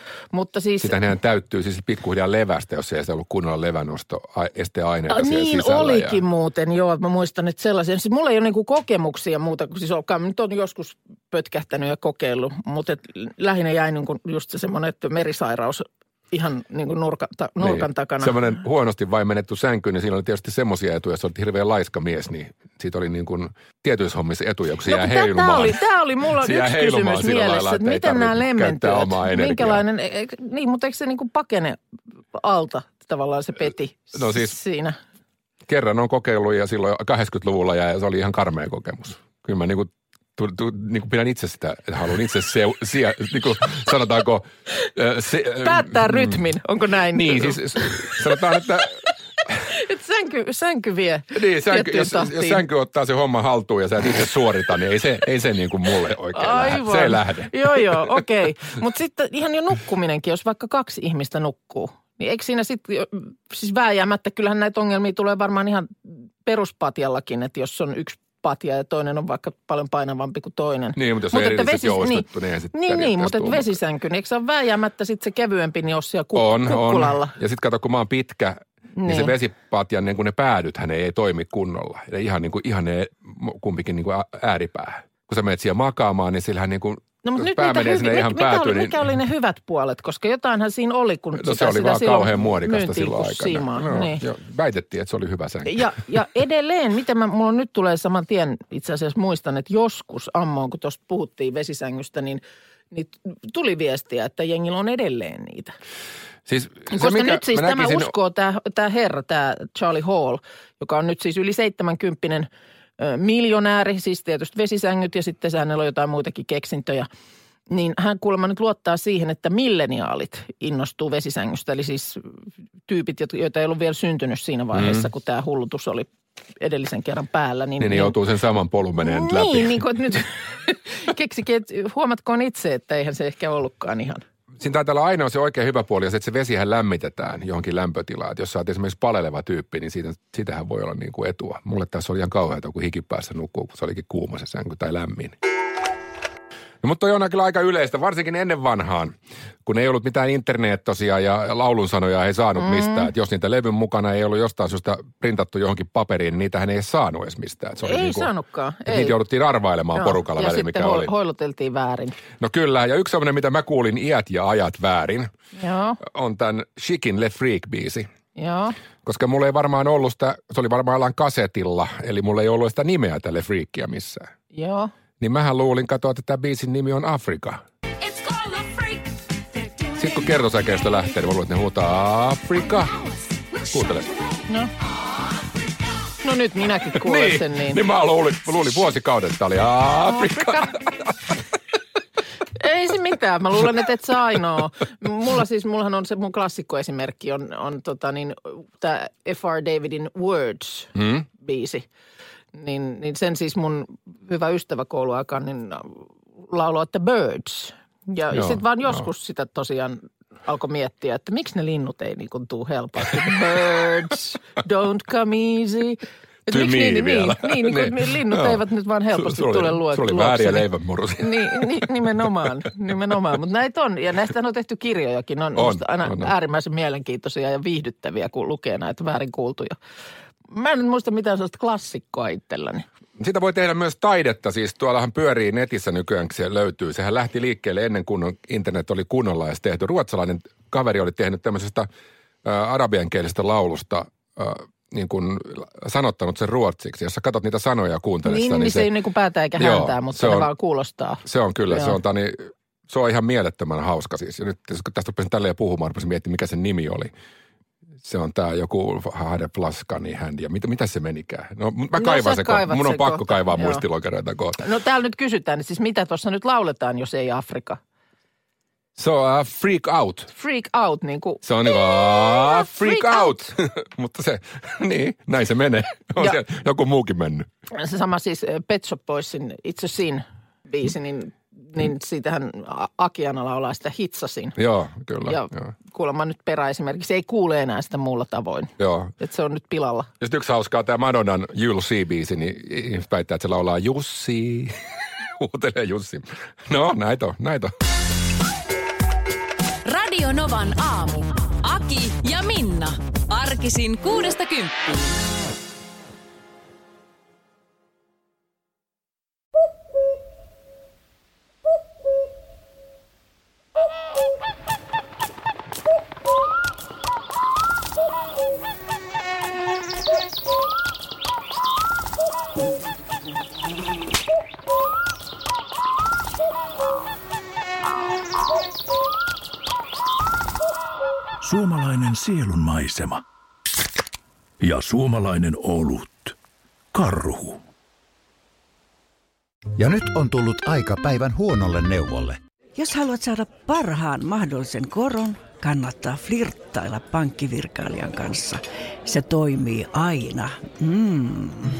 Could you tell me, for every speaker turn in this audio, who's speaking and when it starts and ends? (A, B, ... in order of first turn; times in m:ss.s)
0:00.3-0:01.0 A
0:00.8-0:06.2 B
0:05.1-0:18.4 A
0:17.6-0:25.8 B
0:24.8-0:31.8 A
0:26.3-0:29.8 B
0:32.4-0:35.0 A
0:34.1-0:34.5 B
0:35.7-0:46.4 B
0:45.6-0:48.2 A
0:47.1-0:49.0 B
0:49.7-0:52.6 A
0:51.3-0:58.2 B
0:56.3-1:17.3 A
1:10.9-1:13.8 B
1:16.3-1:29.0 B
1:19.0-1:19.3 A
1:27.2-1:34.2 A
1:31.3-1:35.9 B
1:35.7-1:45.7 A
1:46.5-1:48.1 B
1:46.9-1:52.5 A
1:53.0-1:57.1 A
1:57.7-2:02.3 A
2:02.9-2:06.1 A
2:04.7-2:05.1 B
2:06.6-2:08.2 A
2:07.8-2:09.8 B
2:09.0-2:14.2 A
2:14.6-2:25.4 B
2:26.8-2:38.3 B
2:32.6-2:33.1 A
2:37.8-2:39.2 A
2:38.8-2:41.1 B
2:39.9-2:42.2 A
2:42.4-2:45.3 B
2:45.6-2:46.0 A
2:46.0-2:48.1 B
2:48.4-2:48.8 A
2:49.0-2:54.3 B
2:54.5-2:54.9 A
2:55.2-2:57.6 B
2:58.2-2:58.6 C
2:59.9-3:03.0 B
3:03.6-3:04.2 B
3:06.2-3:07.8 A
3:06.9-3:11.3 B
3:10.1-3:10.6 A
3:12.6-3:21.9 A
3:21.0-3:21.2 B
3:22.5-3:26.0 A
3:26.5-3:40.7 A
3:28.3-3:29.1 B
3:36.5-3:38.6 B
3:39.1-3:41.8 B
3:41.2-3:49.8 A
3:45.6-3:46.3 B
3:50.5-3:52.8 A
3:53.2-4:01.9 B
4:02.4-4:08.9 B
4:08.2-4:12.0 A
4:09.6-4:10.5 B
4:11.2-4:17.1 B
4:18.0-4:24.6 B
4:21.9-4:23.8 A
4:24.6-4:27.8 A
4:29.0-4:30.3 B
4:30.3-4:33.5 A
4:31.4-4:37.5 B
4:37.8-4:44.6 A
4:44.6-4:45.6 B
4:45.3-4:50.1 A
4:48.8-4:49.1 B
4:50.2-4:54.7 B
4:55.4-4:57.7 B
4:59.8-5:05.0 C
5:31.4-5:33.2 D
5:34.6-5:36.4 D
5:36.9-5:37.6 D
5:39.8-5:42.4 E
5:42.8-5:51.6 F